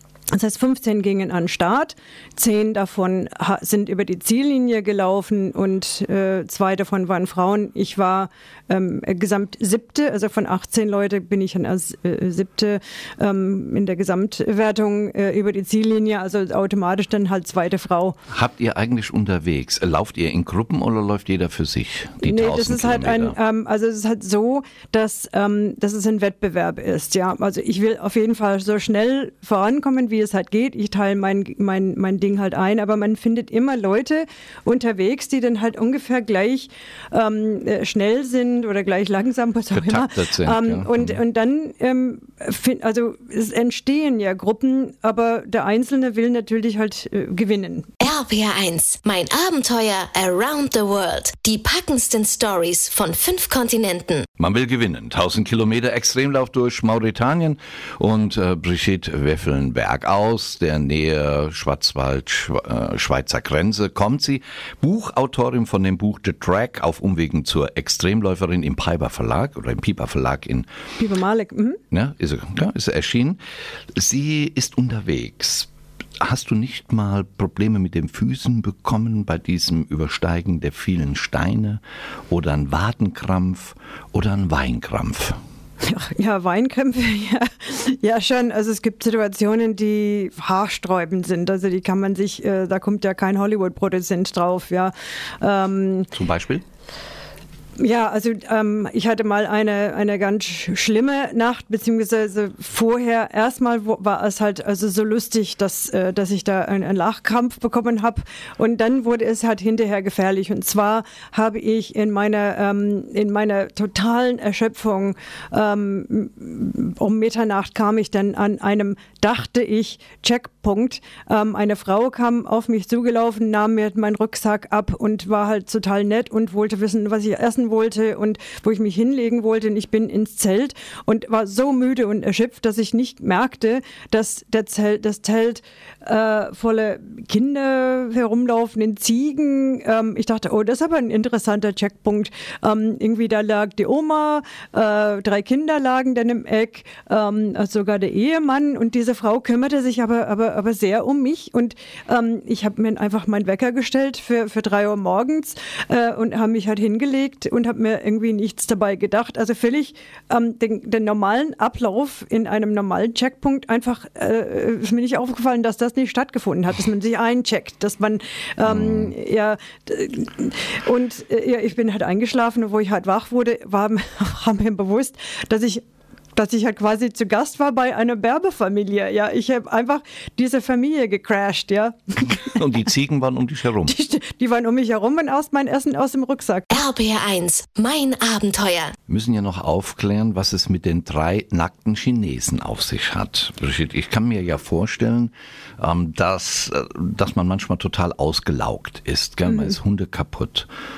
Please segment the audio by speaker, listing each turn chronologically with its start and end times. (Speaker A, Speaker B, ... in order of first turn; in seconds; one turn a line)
Speaker A: 0.3-18.2
Speaker B: 18.3-23.4
Speaker A: 22.2-47.9
Speaker B: 39.7-41.2
Speaker C: 48.0-54.3
Speaker B: 54.4-70.7
Speaker A: 71.0-71.8
Speaker B: 71.9-73.4
Speaker B: 74.0-75.7
Speaker B: 76.2-85.4
Speaker A: 85.8-96.1
Speaker B: 96.1-96.6
Speaker A: 97.8-175.8
Speaker B: 168.7-169.1
Speaker A: 176.3-182.6
Speaker B: 182.5-183.9
Speaker A: 183.8-186.7
Speaker C: 186.7-188.9
Speaker B: 189.1-200.7